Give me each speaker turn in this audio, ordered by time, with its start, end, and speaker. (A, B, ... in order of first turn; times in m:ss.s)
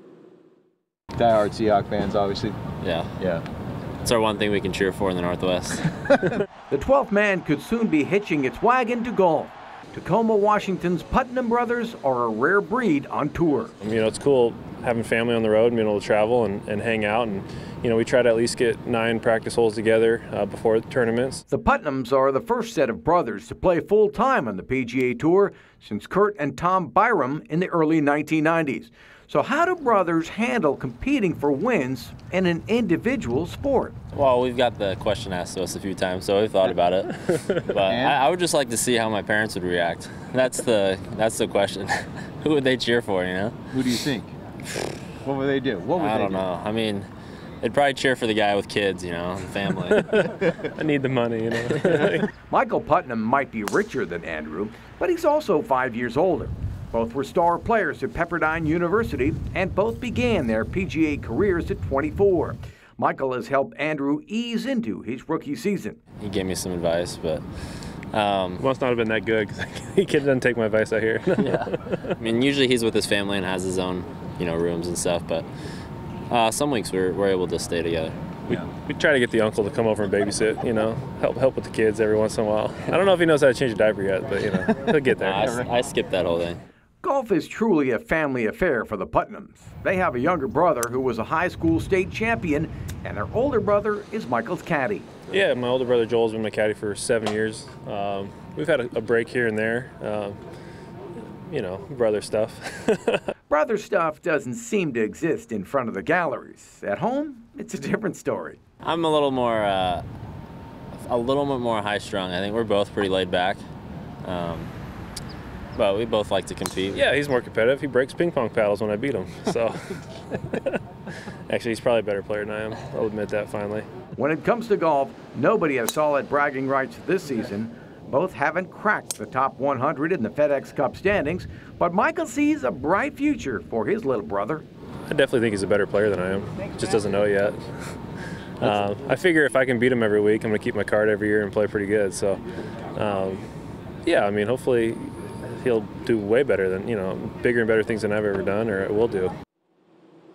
0:01.1-0:02.6 A
0:02.8-0:03.1 B
0:03.2-0:03.4 A
0:04.0-0:05.9 B
0:06.7-0:13.8 C
0:13.8-0:21.4 D
0:21.5-0:33.9 C
0:34.1-0:43.6 B
0:37.8-0:38.2 A
0:43.7-0:44.3 A
0:45.2-0:46.4 A
0:46.0-0:47.1 B
0:47.6-0:50.1 B
0:49.9-0:52.3 D
0:52.5-1:06.0 C
1:06.2-1:07.4 B
1:08.1-1:08.6 B
1:08.6-1:12.1 D
1:11.4-1:15.5 B
1:16.3-1:18.2 B
1:18.5-1:25.6 D
1:25.2-1:26.6 B
1:27.0-1:35.1 C
1:35.3-1:40.4 D
1:41.2-1:43.2 D
1:43.5-1:48.6 C
1:48.8-1:50.0 B
1:51.0-1:53.6 B
1:54.2-1:54.7 B
1:55.8-1:57.0 B
1:56.9-2:00.8 D
2:01.5-2:03.9 D
2:04.2-2:14.6 C
2:15.1-2:18.0 D
2:18.7-2:22.4 D
2:23.0-2:23.5 D
2:24.0-2:29.3 D